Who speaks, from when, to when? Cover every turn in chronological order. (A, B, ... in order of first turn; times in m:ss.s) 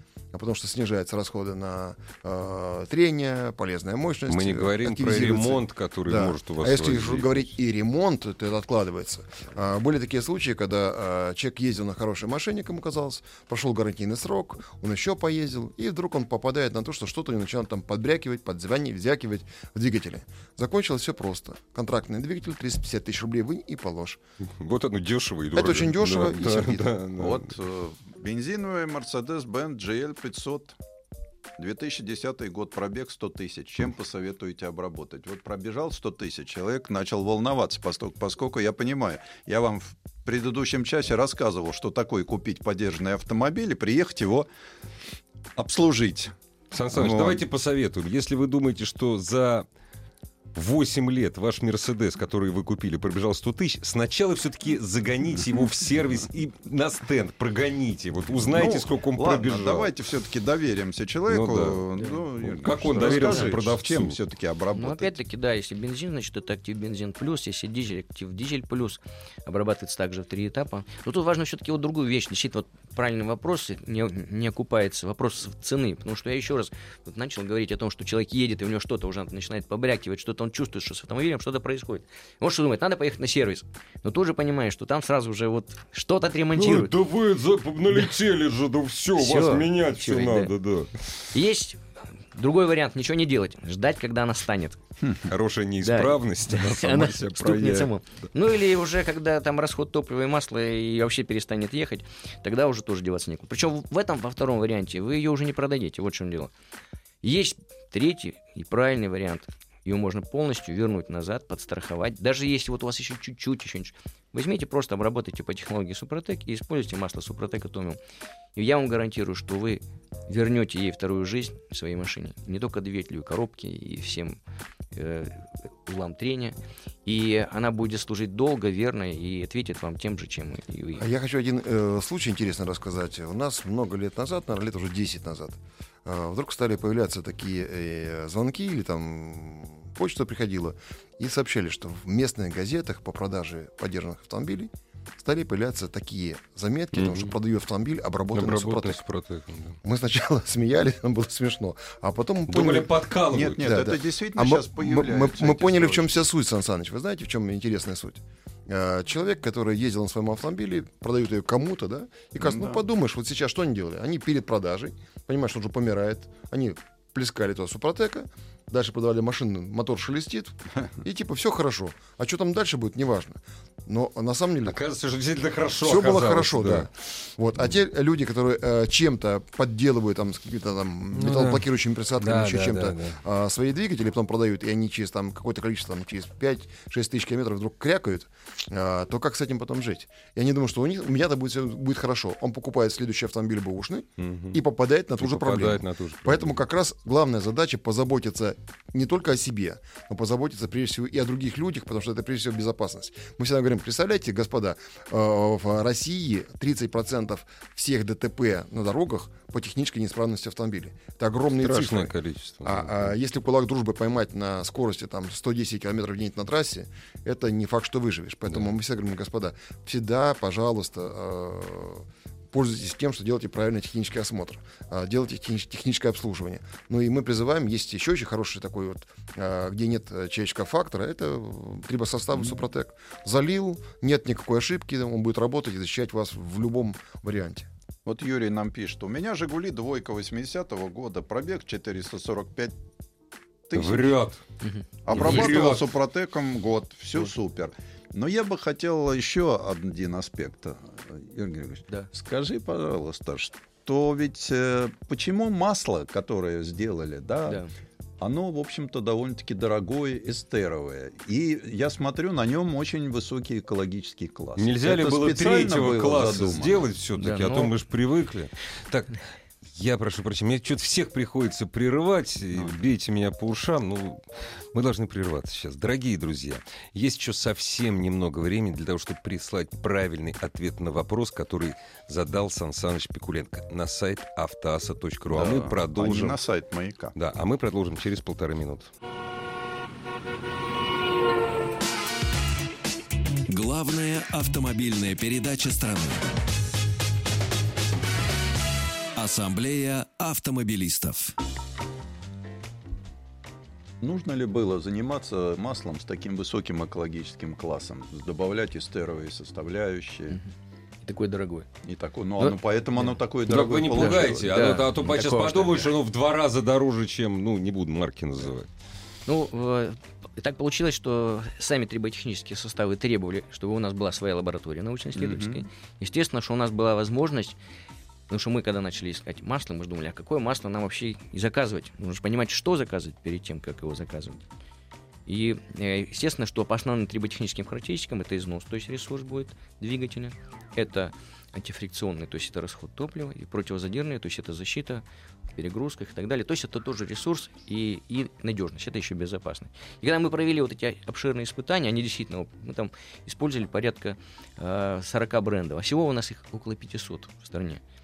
0:00.3-0:24.2 A
0:04.3-0:07.4 B
0:24.6-0:27.5 B
0:25.5-0:26.9 A
0:27.2-0:30.8 C
0:31.6-0:44.5 C
0:45.6-0:46.3 C
0:46.7-0:49.7 B
0:46.9-0:47.4 C
0:50.5-0:59.9 B
0:58.4-1:05.2 C
1:01.3-1:01.8 B
1:02.4-1:04.2 B
1:02.7-1:03.5 D
1:04.7-1:26.9 D
1:26.6-1:31.2 B
1:29.2-1:30.5 D
1:31.3-1:31.8 D
1:32.3-1:34.8 D
1:35.3-1:37.9 B
1:35.8-1:46.5 D
1:47.2-1:58.0 D
1:58.6-2:04.4 D
2:04.9-2:11.0 D
2:11.0-2:29.0 A
2:26.9-2:27.3 B
2:28.3-2:29.8 B
2:29.8-2:32.9 A
2:32.5-2:33.7 B
2:33.3-2:36.2 C
2:33.6-2:54.8 A
2:42.4-2:42.8 C
2:54.7-2:56.9 B
2:55.8-3:57.7 A
3:01.1-3:01.6 B
3:02.2-3:03.2 B
3:14.2-3:14.6 B
3:15.2-3:16.6 B
3:31.6-3:33.1 B
3:58.0-4:02.8 C
4:03.7-4:04.2 C
4:03.7-4:04.4 B
4:04.6-4:05.7 D
4:05.0-4:17.6 C
4:05.1-4:05.9 B
4:17.4-4:17.7 D
4:18.2-4:26.8 C
4:24.6-4:34.2 B
4:27.2-4:27.7 D
4:34.7-4:46.4 B
4:45.3-4:47.1 C
4:47.1-4:48.9 B
4:53.5-4:56.3 E
4:59.1-5:01.3 E
5:04.0-5:10.4 C
5:11.0-5:11.7 D
5:11.8-5:14.7 C
5:12.4-5:13.2 D
5:13.5-5:18.7 B
5:13.9-5:15.9 D
5:19.2-5:27.6 D
5:25.1-5:25.6 C
5:28.3-5:34.4 D
5:35.3-5:45.0 D
5:45.5-5:57.8 D